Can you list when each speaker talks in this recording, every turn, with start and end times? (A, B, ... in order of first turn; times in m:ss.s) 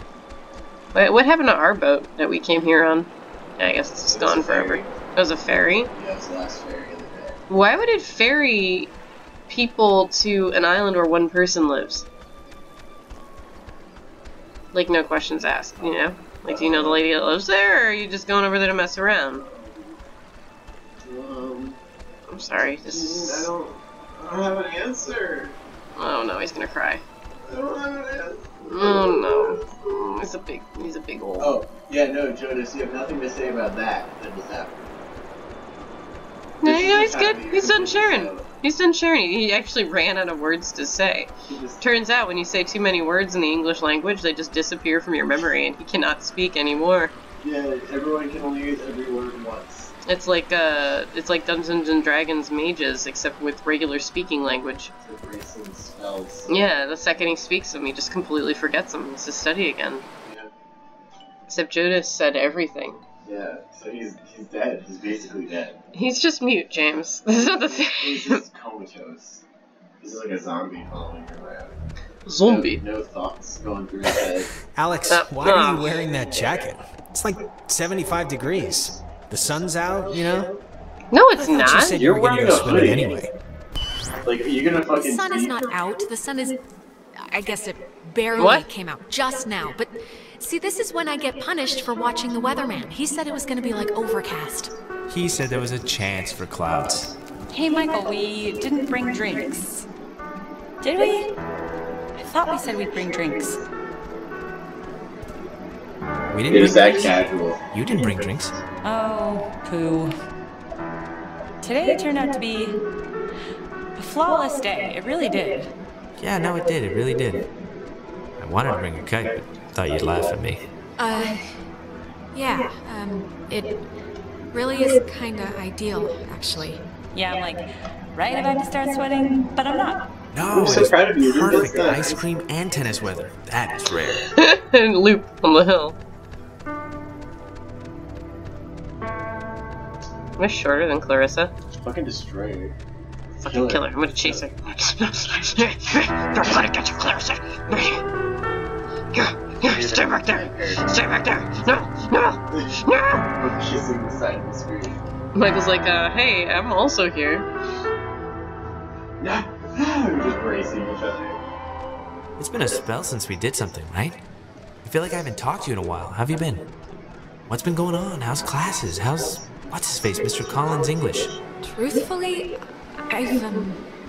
0:00.9-0:05.9 A
0:04.1-0:04.9 B
0:06.0-0:07.4 B
0:07.5-0:08.9 A
0:09.5-0:12.1 A
0:14.7-0:19.4 A
0:16.5-0:17.0 B
0:19.4-0:20.0 B
0:21.0-0:21.8 B
0:22.3-0:23.5 A
0:22.8-0:25.6 B
0:26.0-0:27.0 A
0:27.4-0:29.6 B
0:28.7-0:31.6 A
0:31.4-0:34.9 B
0:36.6-0:38.5 B
0:36.6-0:47.1 A
0:41.5-0:41.8 B
0:47.4-0:49.9 B
0:50.1-0:54.9 A
0:55.0-0:56.7 B
0:56.5-1:00.0 A
1:00.2-1:00.5 B
1:01.5-1:03.0 A
1:03.2-1:05.8 B
1:05.9-1:08.4 A
1:07.5-1:09.4 B
1:10.0-1:11.7 B
1:12.3-1:12.8 A
1:12.4-1:14.5 B
1:14.7-1:20.5 C
1:15.1-1:16.0 A
1:21.1-1:22.0 A
1:21.4-1:23.3 C
1:21.9-1:23.2 B
1:24.2-1:25.6 B
1:25.0-1:26.6 D
1:27.2-1:34.7 D
1:28.4-1:28.6 A
1:35.1-1:37.1 E
1:37.5-1:39.9 F
1:40.8-1:41.3 F
1:42.2-1:43.6 F
1:46.3-1:48.6 E
1:46.5-1:47.6 B
1:48.8-1:50.1 F
1:51.6-1:52.8 F
1:54.0-1:55.7 F
1:56.2-1:57.5 E
1:58.4-2:00.6 E
2:01.0-2:01.5 D
2:02.3-2:03.9 D
2:04.5-2:06.8 D
2:07.1-2:10.0 F
2:10.3-2:14.3 E
2:10.5-2:12.2 B
2:14.4-2:16.0 A
2:20.4-2:21.5 A
2:21.8-2:22.7 B
2:23.4-2:24.4 B
2:23.4-2:28.0 A
2:29.1-2:33.2 A
2:29.6-2:30.9 B
2:33.3-2:35.0 B
2:35.4-2:37.5 A
2:39.2-2:41.4 B
2:42.4-2:44.2 E
2:44.8-2:46.6 E
2:47.5-2:51.3 E
2:51.6-2:52.6 D
2:53.1-2:53.8 D